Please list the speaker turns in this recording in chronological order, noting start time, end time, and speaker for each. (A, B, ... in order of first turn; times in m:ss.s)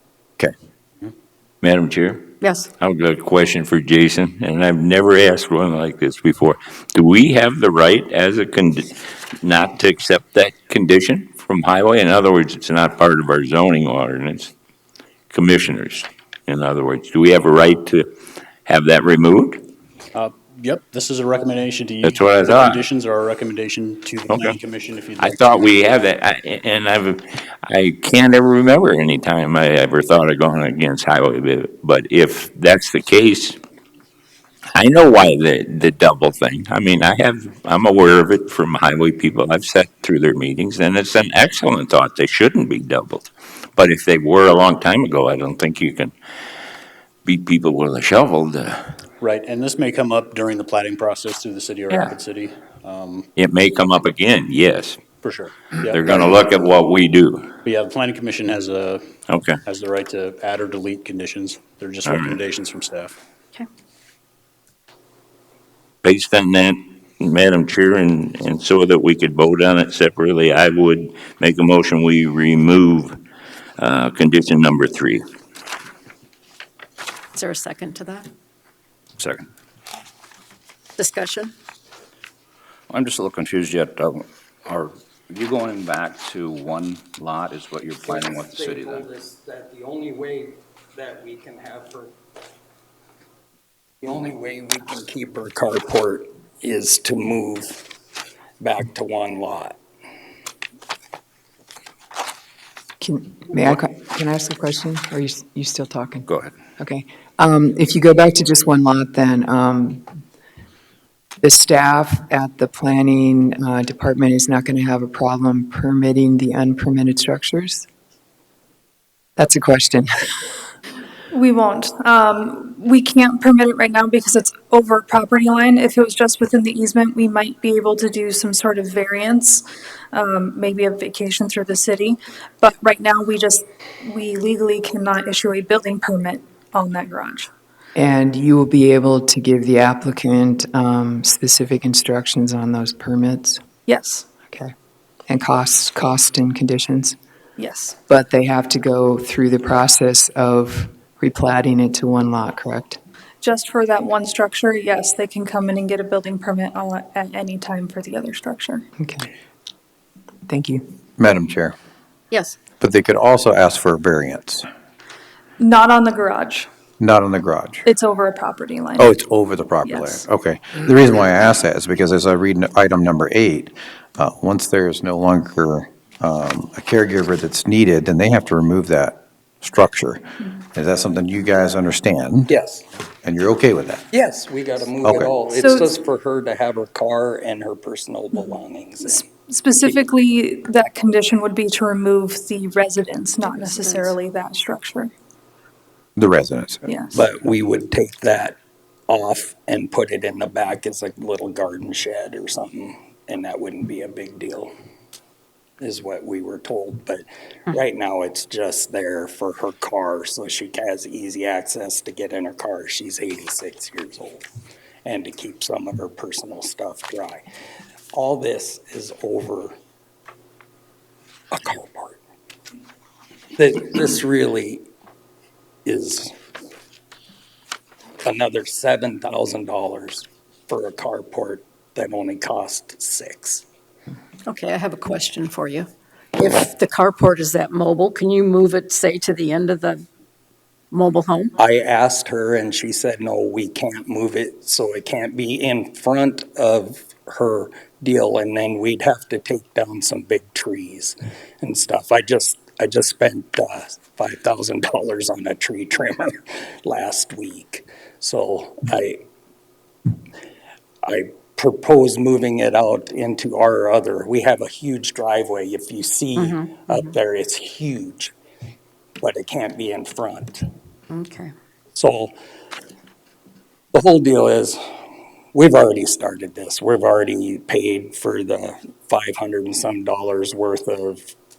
0:01.6-0:14.5 A
0:15.3-0:18.1 A
0:18.7-0:19.6 A
0:20.1-0:25.9 B
0:22.0-0:22.8 A
0:24.3-0:24.6 A
0:25.2-0:33.6 A
0:34.8-0:46.1 A
0:47.2-0:48.9 A
0:49.2-0:53.3 B
0:53.4-0:55.0 A
0:55.2-0:56.4 B
0:55.9-0:57.5 A
0:57.6-1:03.2 B
0:59.3-0:59.6 A
1:02.1-1:02.4 A
1:06.0-1:13.2 A
1:13.8-1:15.2 A
1:17.4-1:18.3 C
1:19.2-1:19.5 D
1:21.0-1:21.5 C
1:22.9-1:29.0 D
1:28.0-1:32.1 E
1:34.0-1:37.8 E
1:38.6-1:39.8 E
1:43.0-1:46.3 F
1:46.8-1:50.1 F
1:51.4-1:57.9 F
1:59.4-2:00.3 F
2:01.3-2:17.5 G
2:18.0-2:23.6 F
2:23.9-2:24.3 G
2:25.3-2:27.2 F
2:27.6-2:28.0 G
2:28.1-2:33.0 F
2:33.4-2:38.8 G
2:39.0-2:39.3 F
2:40.5-2:40.8 F
2:41.2-2:41.8 H
2:42.3-2:42.6 C
2:42.8-2:44.7 H
2:45.6-2:46.7 G
2:47.0-2:47.8 H
2:47.9-2:49.2 G
2:49.0-3:02.5 H
2:49.8-2:50.2 G
3:02.5-3:02.8 E
3:03.2-3:04.0 H
3:04.1-3:09.2 E
3:05.0-3:05.3 H
3:05.6-3:05.9 G
3:09.1-3:15.1 G
3:13.4-3:14.1 C
3:16.2-3:16.8 H
3:16.9-3:17.2 G
3:17.1-3:18.6 E
3:19.1-3:24.7 E
3:25.8-3:34.4 E
3:35.0-3:37.4 E
3:38.1-3:39.8 E
3:41.5-3:42.2 E
3:43.6-3:44.9 E
3:45.9-3:46.3 E
3:48.2-3:53.6 E
3:54.5-4:00.0 C
4:00.9-4:01.5 C
4:01.6-4:19.2 E
4:21.0-4:28.3 E
4:26.4-4:26.9 C
4:29.2-4:30.7 E
4:31.1-4:31.5 C
4:32.0-4:32.3 E
4:33.9-4:34.8 E
4:35.5-4:41.3 E